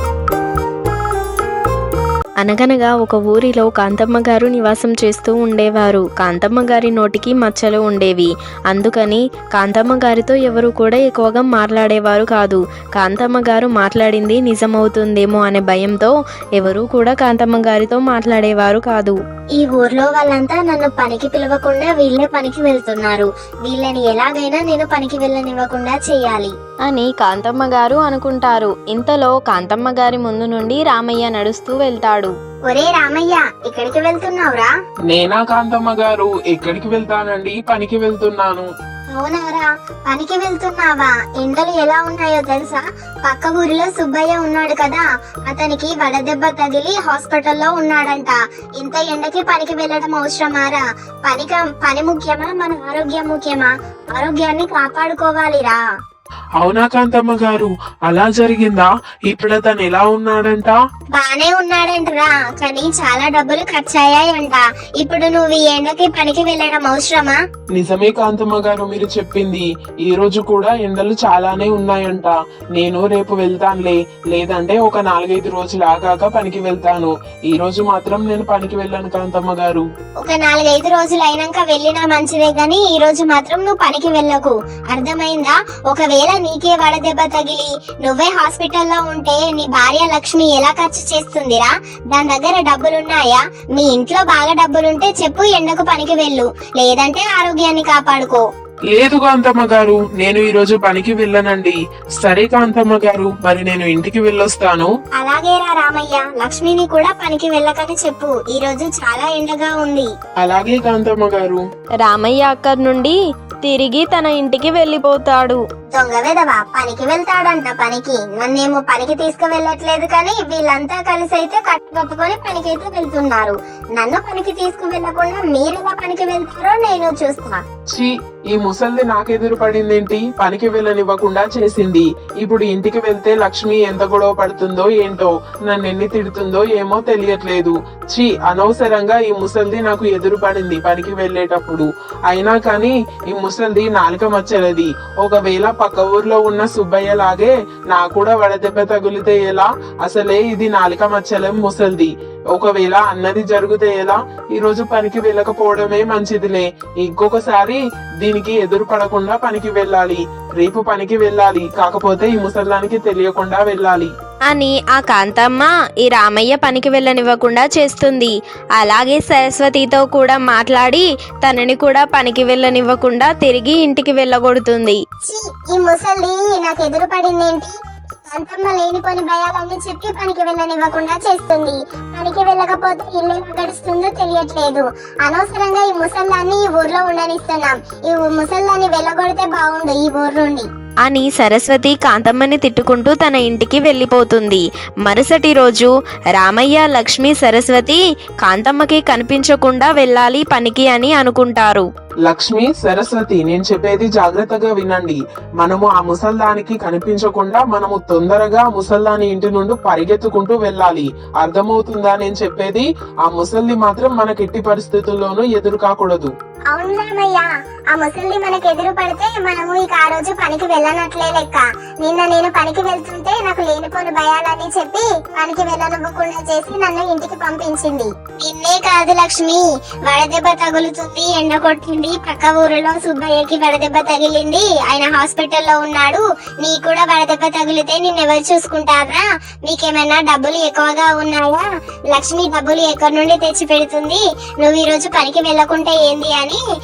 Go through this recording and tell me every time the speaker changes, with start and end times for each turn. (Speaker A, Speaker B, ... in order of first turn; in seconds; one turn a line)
Speaker A: 2.4-19.2
Speaker B: 19.6-26.5
Speaker A: 26.8-32.3
Speaker B: 32.7-34.7
Speaker C: 35.1-38.7
Speaker B: 39.1-55.8
Speaker C: 56.6-60.8
Speaker B: 61.1-67.4
Speaker C: 67.7-79.8
Speaker B: 80.2-98.4
Speaker C: 98.9-104.9
Speaker B: 105.2-110.1
Speaker C: 110.4-111.6
Speaker A: 112.0-115.6
Speaker B: 115.9-127.6
Speaker C: 127.9-164.1
Speaker A: 164.5-175.0
Speaker B: 175.2-190.7
Speaker A: 191.0-201.9
Speaker C: 202.2-216.3
Speaker B: 216.7-246.6